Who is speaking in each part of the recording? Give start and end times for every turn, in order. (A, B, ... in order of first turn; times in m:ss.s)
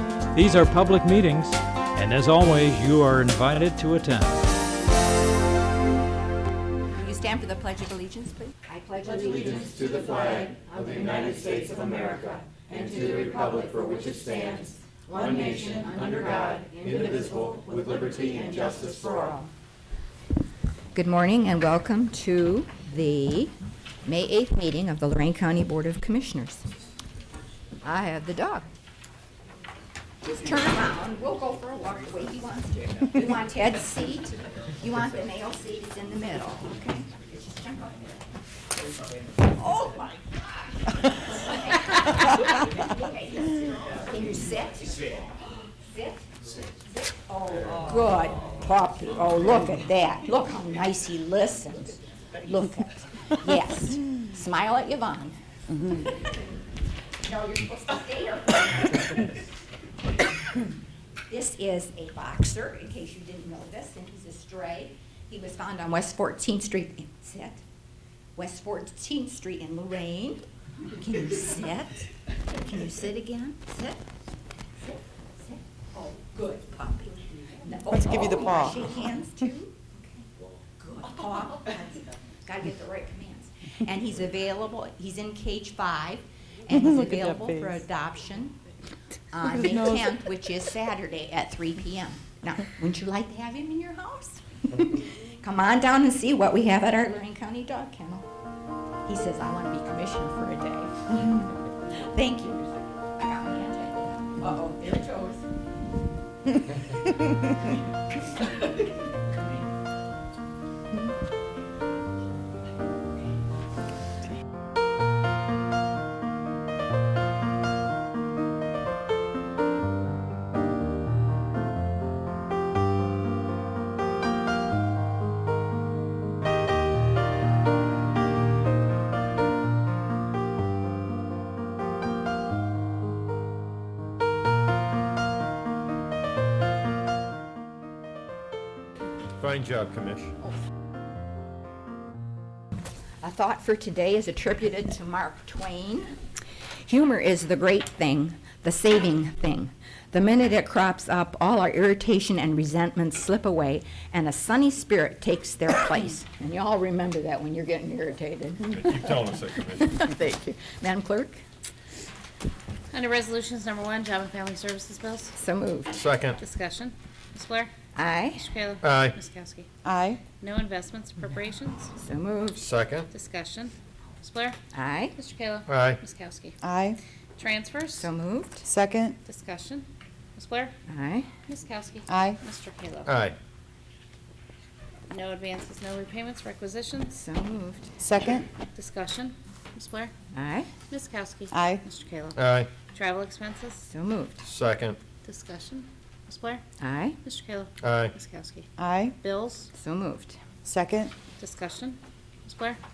0:00.3-0:04.5 A
0:06.9-0:19.5 B
0:20.9-0:23.5 B
0:24.0-0:26.7 B
0:27.8-0:28.7 B
0:30.2-0:38.2 B
0:39.4-0:45.3 B
0:45.8-0:56.6 B
0:57.2-0:59.3 B
1:01.3-1:07.6 B
1:08.4-1:14.0 B
1:14.9-1:28.6 B
1:17.9-1:18.8 C
1:26.7-1:27.7 C
1:29.3-1:38.3 B
1:29.6-1:30.0 C
1:39.0-1:45.4 B
2:19.4-2:20.3 D
2:23.2-2:26.2 B
2:26.8-2:41.4 B
2:38.8-2:39.9 D
2:42.9-2:45.3 E
2:45.3-2:45.9 B
2:45.9-2:46.4 D
2:46.4-2:47.7 E
2:47.9-2:48.5 B
2:48.4-2:49.7 E
2:48.8-2:49.2 D
2:49.8-2:50.2 C
2:50.4-2:51.9 E
2:52.0-2:52.7 B
2:52.6-2:53.1 D
2:53.1-2:54.6 E
2:54.7-2:55.2 B
2:55.2-2:56.6 E
2:55.7-2:56.0 D
2:56.6-2:57.0 C
2:57.4-2:58.1 E
2:58.0-2:58.7 B
2:58.7-2:59.2 C
2:59.2-3:00.7 E
3:00.9-3:01.3 B
3:01.5-3:03.2 E
3:02.1-3:02.4 C
3:03.1-3:03.4 D
3:05.1-3:07.2 E
3:07.1-3:07.9 B
3:08.0-3:08.5 C
3:08.8-3:10.1 E
3:10.3-3:10.7 B
3:10.9-3:12.4 E
3:11.5-3:11.8 C
3:12.4-3:12.7 D
3:12.9-3:13.9 E
3:13.9-3:14.4 B
3:14.4-3:15.0 D
3:15.2-3:16.6 E
3:16.8-3:17.2 B
3:17.2-3:18.7 E
3:17.8-3:18.2 D
3:18.8-3:19.2 C
3:19.2-3:19.7 E
3:19.7-3:20.4 B
3:20.6-3:21.1 C
3:21.4-3:22.8 E